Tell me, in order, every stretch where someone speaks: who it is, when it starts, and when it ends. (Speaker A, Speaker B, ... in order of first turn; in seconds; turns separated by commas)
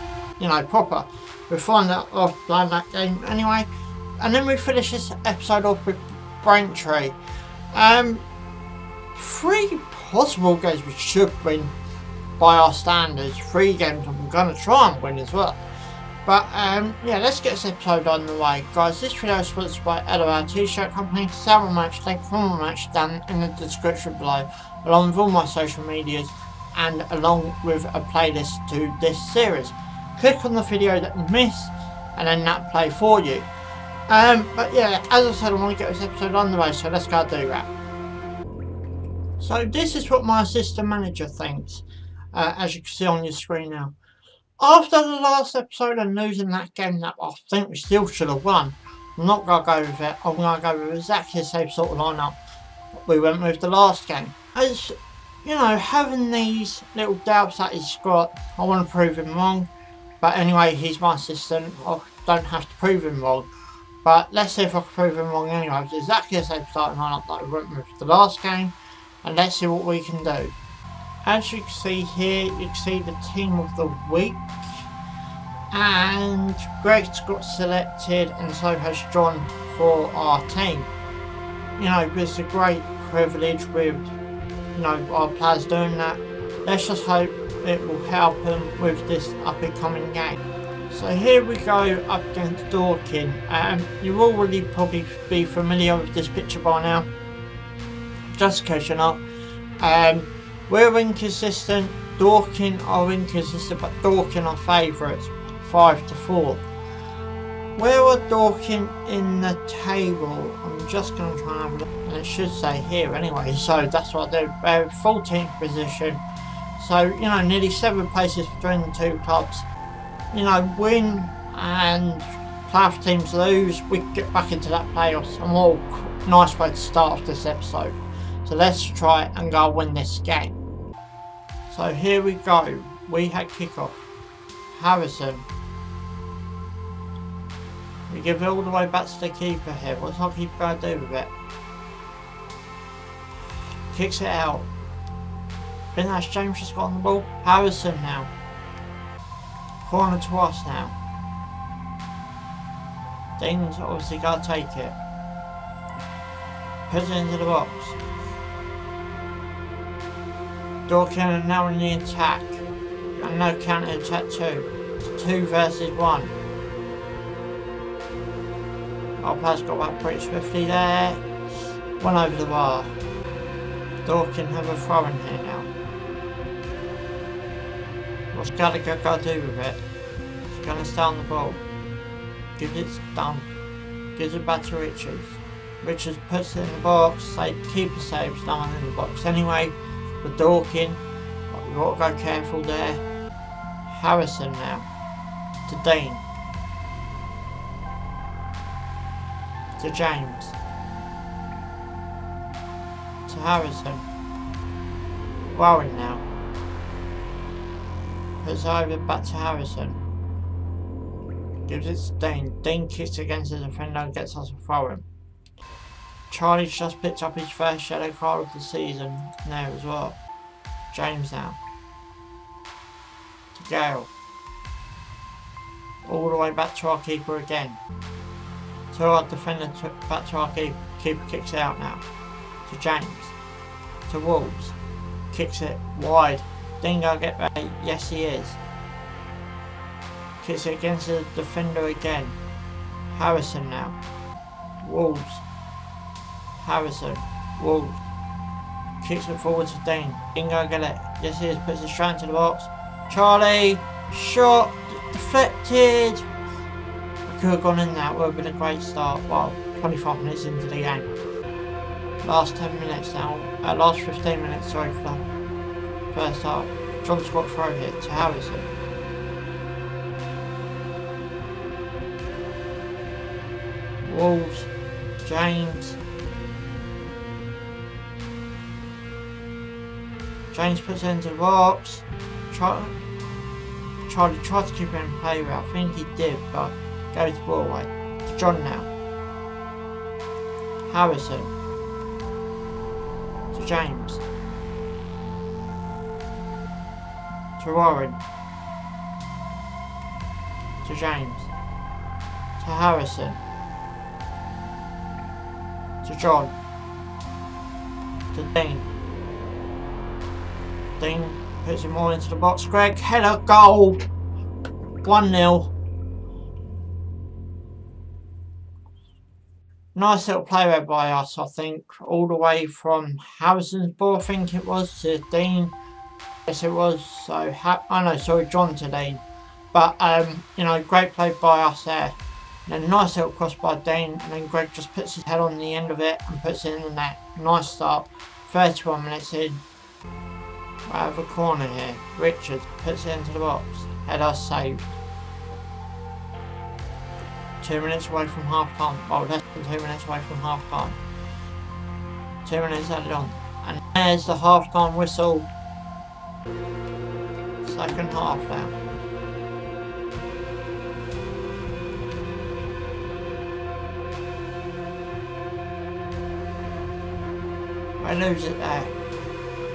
Speaker A: 0.4-3.7, Speaker A: 4.2-7.2, Speaker A: 7.7-8.2, Speaker A: 9.1-11.7, Speaker A: 12.4-15.6, Speaker A: 16.2-33.5, Speaker A: 34.1-37.7, Speaker A: 39.4-43.9, Speaker A: 44.6-52.4, Speaker A: 53.0-59.7, Speaker A: 60.2-63.5, Speaker A: 64.0-70.5, Speaker A: 71.2-74.9, Speaker A: 75.7-80.9, Speaker A: 81.8-84.0, Speaker A: 84.7-97.1, Speaker A: 98.3-99.2, Speaker A: 99.8-106.6, Speaker A: 107.8-116.2, Speaker A: 116.8-119.7, Speaker A: 120.3-130.6, Speaker A: 131.7-134.1, Speaker A: 134.7-135.5, Speaker A: 138.1-141.3, Speaker A: 143.9-144.7, Speaker A: 145.9-148.3, Speaker A: 149.8-150.9, Speaker A: 153.4-155.0, Speaker A: 156.9-158.0, Speaker A: 160.9-162.6, Speaker A: 163.2-166.3, Speaker A: 169.2-171.2, Speaker A: 172.0-172.9, Speaker A: 174.0-175.7, Speaker A: 178.3-179.8, Speaker A: 180.5-181.6, Speaker A: 182.6-183.5, Speaker A: 184.2-193.0, Speaker A: 193.9-194.9, Speaker A: 195.7-196.2, Speaker A: 199.8-200.6, Speaker A: 203.3-204.1, Speaker A: 205.5-206.2, Speaker A: 208.4-210.0, Speaker A: 211.7-215.1, Speaker A: 216.3-220.2, Speaker A: 220.9-221.6, Speaker A: 223.5-224.1, Speaker A: 226.0-227.8, Speaker A: 228.9-232.0, Speaker A: 232.7-233.3, Speaker A: 234.1-234.8, Speaker A: 235.3-238.6, Speaker A: 240.4-242.4, Speaker A: 243.1-244.0, Speaker A: 244.8-245.4, Speaker A: 246.6-248.0, Speaker A: 249.0-256.2, Speaker A: 257.3-261.1, Speaker A: 262.2-265.2, Speaker A: 266.1-268.7, Speaker A: 274.0-274.7, Speaker A: 275.2-276.0, Speaker A: 280.5-283.0, Speaker A: 284.1-288.9, Speaker A: 290.9-291.5, Speaker A: 293.5-294.2, Speaker A: 297.6-298.2, Speaker A: 300.8-301.5, Speaker A: 302.6-303.4, Speaker A: 306.0-306.5, Speaker A: 308.3-308.9, Speaker A: 311.0-314.1, Speaker A: 315.0-315.7, Speaker A: 319.9-325.7, Speaker A: 326.4-339.6, Speaker A: 340.8-345.0, Speaker A: 347.6-351.0, Speaker A: 352.4-355.5, Speaker A: 357.6-358.8, Speaker A: 368.0-368.9